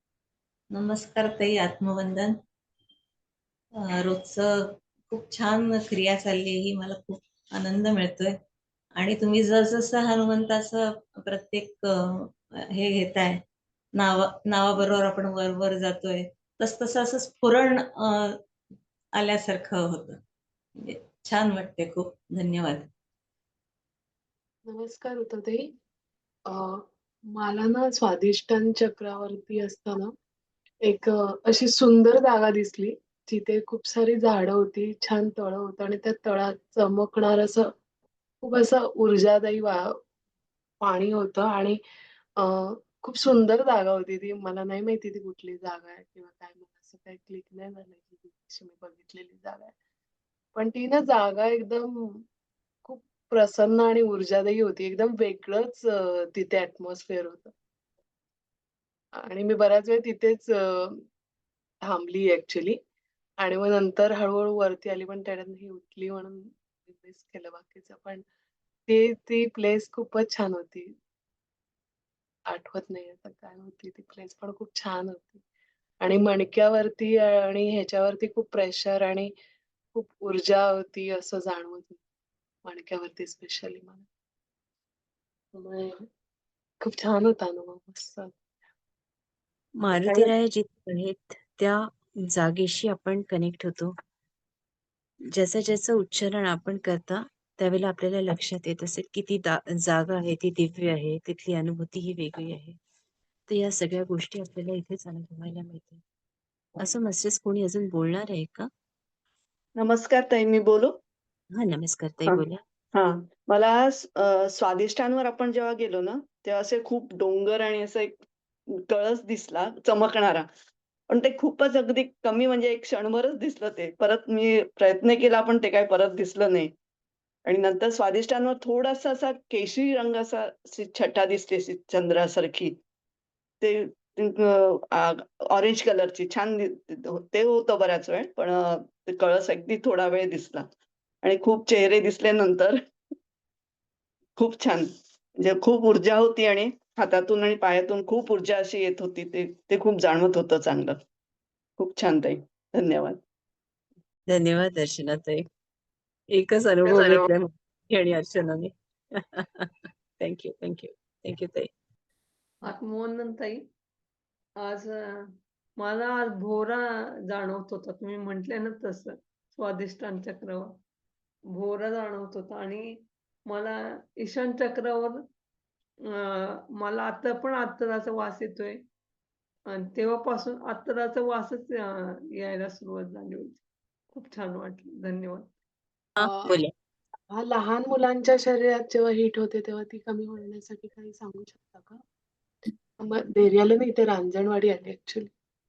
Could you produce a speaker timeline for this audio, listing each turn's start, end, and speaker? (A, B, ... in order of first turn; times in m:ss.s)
0:00.7-0:02.3 A
0:04.0-0:04.4 A
0:05.1-0:08.3 A
0:09.0-0:11.8 A
0:12.8-0:13.4 A
0:14.0-0:17.8 A
0:19.2-0:20.1 A
0:20.9-0:22.9 A
0:24.7-0:25.7 B
0:26.5-0:30.1 B
0:30.8-0:37.7 B
0:38.4-0:39.9 B
0:40.8-0:41.8 B
0:42.4-0:49.7 B
0:50.5-0:52.2 B
0:52.8-0:57.5 B
0:59.2-1:01.0 B
1:01.8-1:02.8 B
1:03.4-1:08.2 B
1:08.9-1:10.9 B
1:12.5-1:15.4 B
1:16.0-1:19.3 B
1:19.9-1:22.0 B
1:22.6-1:24.0 B
1:25.5-1:26.0 B
1:26.8-1:28.3 B
1:29.8-1:33.9 C
1:35.3-1:42.8 C
1:43.5-1:46.0 C
1:46.8-1:48.7 C
1:49.8-1:51.0 D
1:51.6-1:52.6 C
1:52.9-1:58.1 D
1:58.9-2:00.4 D
2:01.1-2:06.7 D
2:07.4-2:12.8 D
2:13.6-2:20.7 D
2:21.2-2:22.8 D
2:24.4-2:24.9 D
2:25.4-2:31.0 D
2:31.8-2:33.2 D
2:34.3-2:35.4 C
2:36.3-2:41.7 C
2:36.9-2:37.2 E
2:42.6-2:43.6 E
2:44.6-2:45.2 E
2:45.8-2:50.7 E
2:51.5-2:55.2 E
2:56.1-2:58.8 E
2:59.7-3:03.6 E
3:04.1-3:05.5 E
3:06.2-3:06.7 C
3:06.2-3:06.5 B
3:07.3-3:12.0 B
3:13.0-3:15.3 B